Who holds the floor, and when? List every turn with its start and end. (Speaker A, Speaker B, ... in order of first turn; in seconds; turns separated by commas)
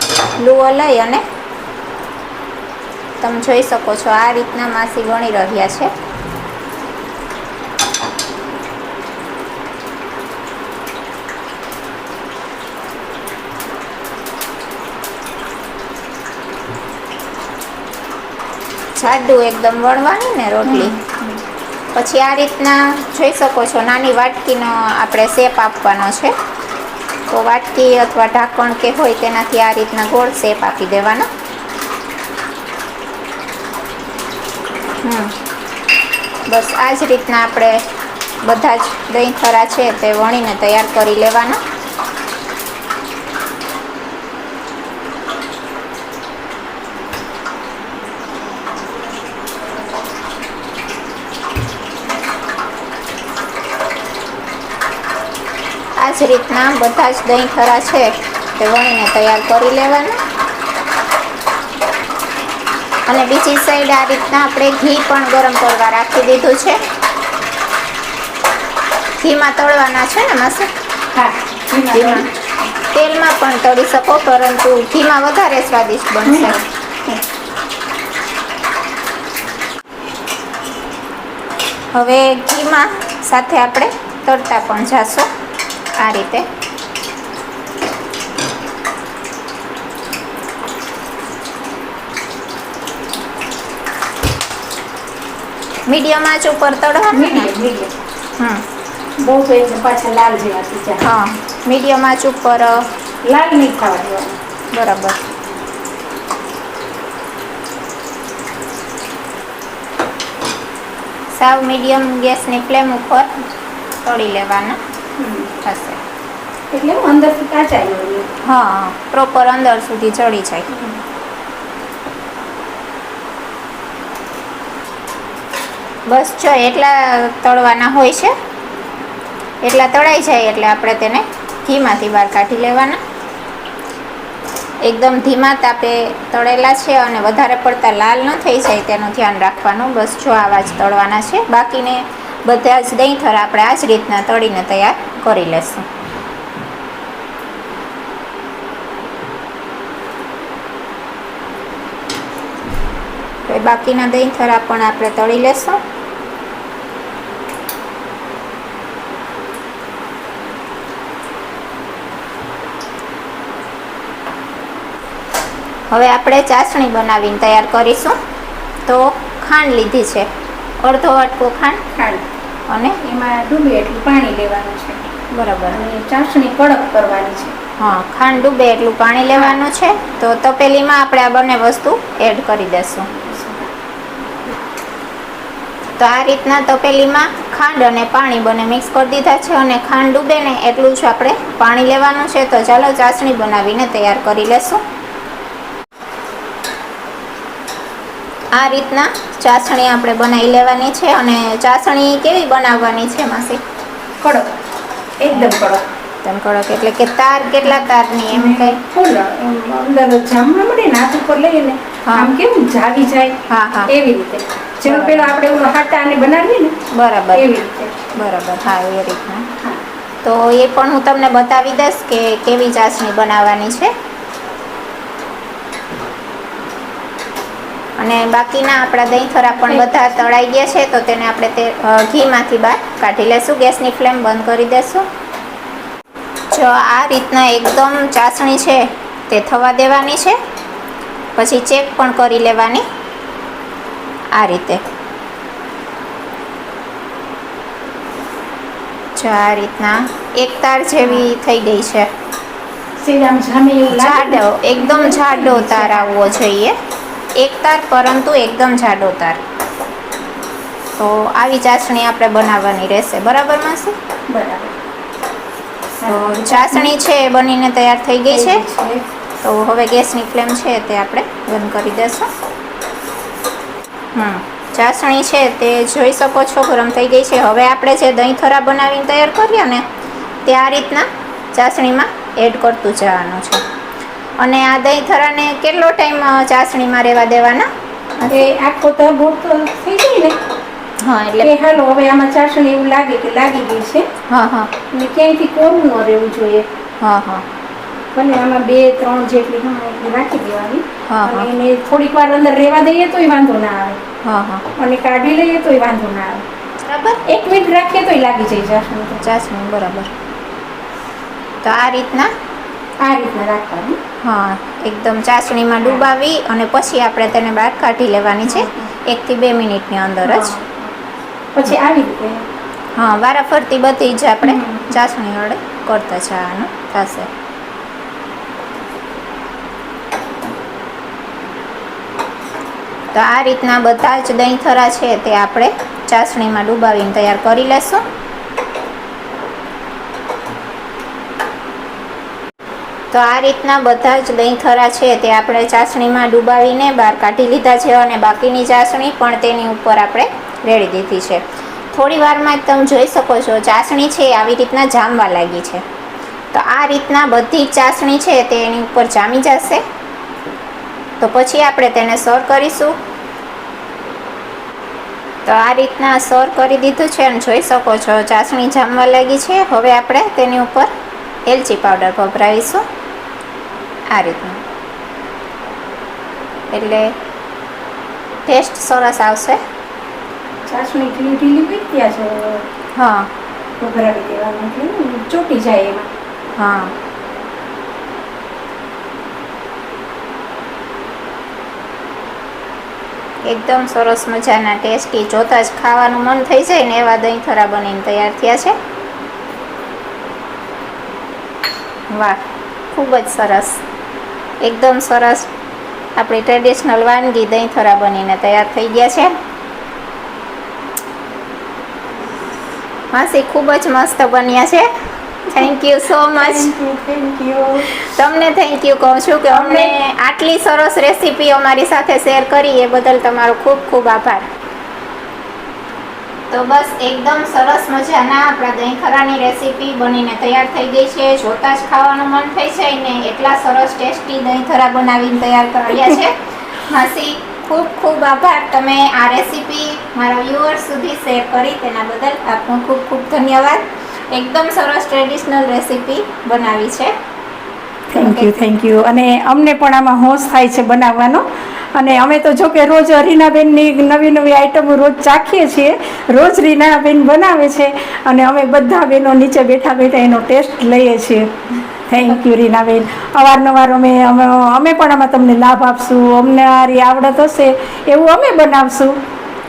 Speaker A: 0.3-1.2, Speaker A: 3.2-5.9, Speaker A: 19.0-21.0, Speaker B: 20.6-21.4, Speaker A: 21.9-26.3, Speaker A: 27.3-31.3, Speaker A: 35.0-35.3, Speaker A: 36.5-37.8, Speaker A: 38.4-41.6, Speaker A: 56.0-60.2, Speaker A: 63.1-66.8, Speaker A: 69.2-70.7, Speaker B: 71.2-72.3, Speaker A: 71.9-72.3, Speaker A: 72.9-76.6, Speaker B: 76.3-77.2, Speaker A: 81.9-85.3, Speaker A: 86.0-86.5, Speaker A: 95.9-97.5, Speaker B: 97.1-97.9, Speaker B: 99.2-101.1, Speaker A: 101.0-102.9, Speaker B: 103.2-104.4, Speaker A: 104.7-105.2, Speaker A: 111.3-113.3, Speaker A: 114.0-114.8, Speaker B: 115.2-115.5, Speaker A: 115.6-116.0, Speaker B: 116.7-118.3, Speaker A: 118.4-120.7, Speaker B: 120.7-121.0, Speaker A: 126.1-128.3, Speaker A: 129.6-133.0, Speaker A: 134.8-145.8, Speaker A: 153.5-155.8, Speaker A: 165.9-168.2, Speaker A: 168.9-170.3, Speaker A: 170.8-171.8, Speaker B: 171.9-172.2, Speaker A: 172.7-173.0, Speaker B: 173.0-175.1, Speaker A: 175.3-175.8, Speaker B: 175.7-177.6, Speaker A: 177.8-183.1, Speaker B: 183.2-183.7, Speaker A: 186.0-194.8, Speaker A: 198.5-203.6, Speaker B: 204.2-204.5, Speaker B: 205.2-205.8, Speaker A: 206.2-208.8, Speaker B: 208.3-216.8, Speaker A: 212.1-212.3, Speaker A: 213.5-213.9, Speaker A: 214.9-215.3, Speaker A: 216.9-217.5, Speaker B: 217.3-218.1, Speaker A: 218.2-219.5, Speaker A: 220.2-223.9, Speaker A: 228.0-235.1, Speaker B: 229.6-230.1, Speaker A: 236.5-240.4, Speaker A: 241.4-242.8, Speaker A: 244.3-244.8, Speaker A: 249.2-252.1, Speaker B: 251.0-251.3, Speaker B: 253.0-256.4, Speaker A: 253.9-256.8, Speaker A: 257.4-259.4, Speaker A: 261.0-263.9, Speaker B: 264.3-264.8, Speaker B: 266.0-266.9, Speaker A: 266.1-268.6, Speaker B: 268.3-269.0, Speaker A: 269.4-272.3, Speaker A: 274.1-279.9, Speaker A: 280.5-283.6, Speaker A: 284.4-288.5, Speaker B: 288.3-290.4, Speaker A: 291.0-291.5, Speaker B: 291.4-294.1, Speaker A: 294.3-294.7, Speaker B: 294.9-296.7, Speaker A: 297.0-297.4, Speaker B: 298.1-304.0, Speaker A: 301.1-301.5, Speaker A: 304.2-304.6, Speaker B: 304.8-306.4, Speaker A: 306.9-307.2, Speaker B: 307.2-309.2, Speaker A: 309.2-310.1, Speaker A: 311.6-312.3, Speaker B: 313.0-314.0, Speaker A: 314.2-320.5, Speaker B: 318.5-318.9, Speaker B: 320.2-320.9, Speaker B: 321.6-322.4, Speaker A: 323.0-327.3, Speaker B: 324.4-324.9, Speaker A: 333.1-338.0, Speaker A: 343.1-355.8, Speaker A: 356.5-359.8, Speaker A: 361.2-363.0, Speaker A: 365.4-370.9, Speaker A: 371.5-372.8, Speaker A: 374.1-374.6, Speaker A: 376.7-377.1, Speaker A: 378.5-379.6, Speaker B: 380.7-382.7, Speaker A: 383.0-383.3, Speaker B: 383.8-386.1, Speaker A: 386.6-386.9, Speaker A: 393.5-398.8, Speaker A: 402.1-402.4, Speaker A: 402.9-403.8, Speaker A: 404.6-405.5, Speaker A: 406.2-409.4, Speaker A: 413.1-414.9, Speaker A: 415.5-416.7, Speaker B: 416.4-418.0, Speaker A: 418.0-424.4, Speaker B: 419.5-420.0, Speaker A: 426.5-447.1, Speaker B: 448.1-461.5, Speaker A: 448.2-448.5, Speaker B: 462.1-469.2